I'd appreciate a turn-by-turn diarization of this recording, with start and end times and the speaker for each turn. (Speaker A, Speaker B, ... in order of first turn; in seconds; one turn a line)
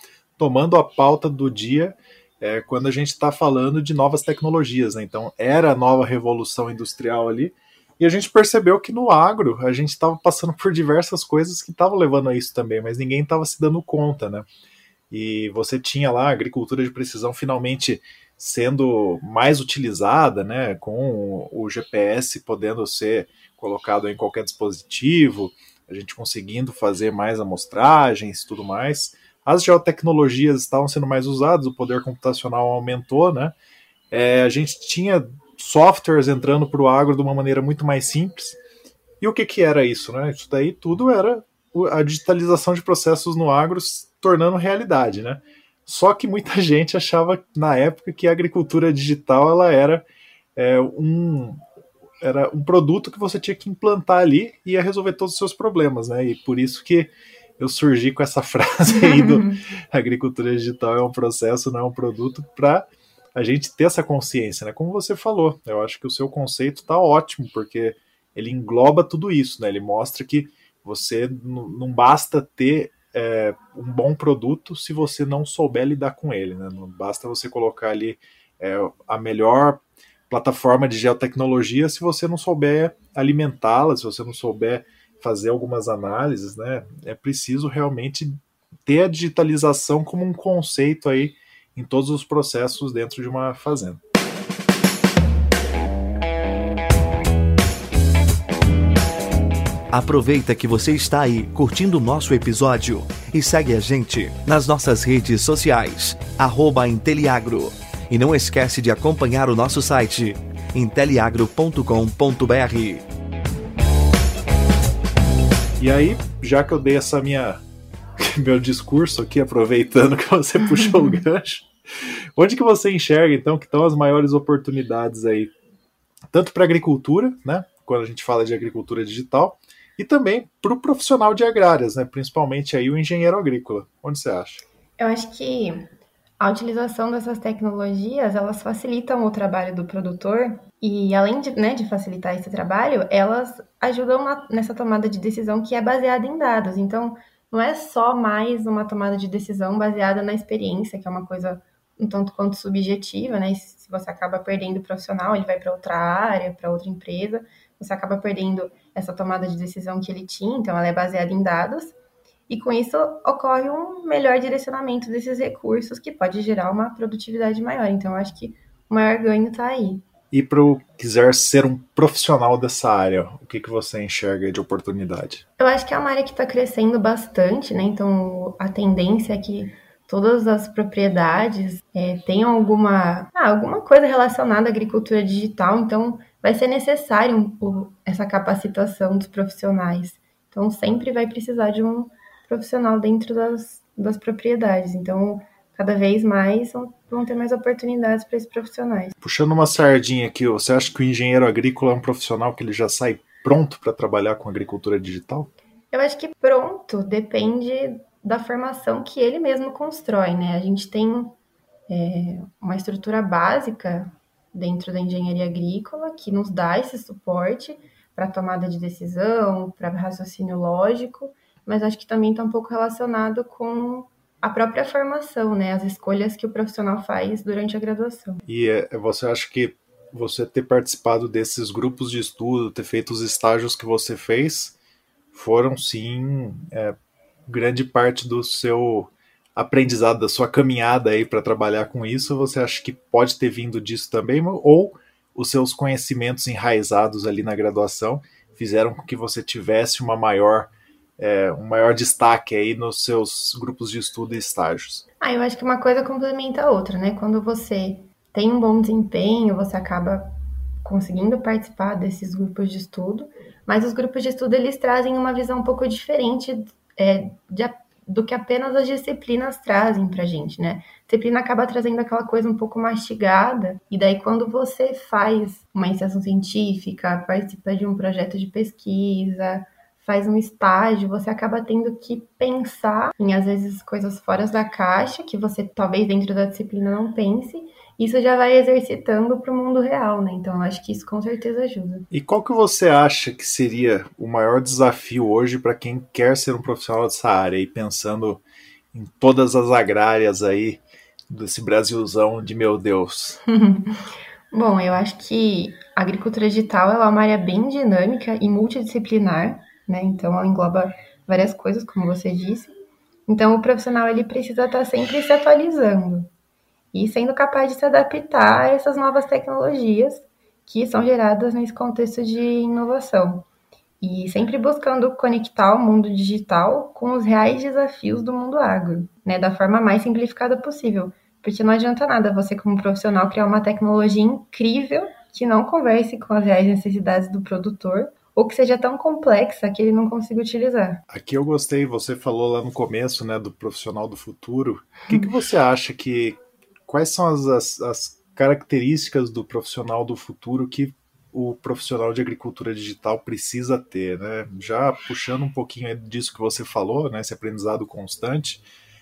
Speaker A: 0.4-14.5
Speaker A: 15.1-33.5
Speaker A: 34.1-38.6
Speaker A: 39.2-50.0
Speaker A: 50.6-51.6
Speaker A: 52.2-94.0
Speaker B: 99.9-113.0
Speaker A: 115.8-117.6
Speaker A: 118.2-125.5
Speaker A: 126.3-134.6
Speaker C: 135.0-161.9
Speaker C: 162.5-170.0
Speaker A: 170.3-175.4
Speaker C: 175.6-199.1
Speaker A: 199.2-205.5
Speaker C: 205.9-211.4
Speaker C: 211.9-228.4
Speaker A: 228.5-234.8
Speaker A: 235.3-236.9
Speaker A: 237.5-255.0
Speaker C: 255.2-292.1
Speaker A: 292.1-298.4
Speaker A: 298.9-303.4
Speaker C: 303.5-304.0
Speaker C: 304.5-312.7
Speaker C: 313.3-316.3
Speaker C: 316.9-323.5
Speaker C: 324.0-341.0
Speaker A: 341.1-346.4
Speaker A: 346.9-358.6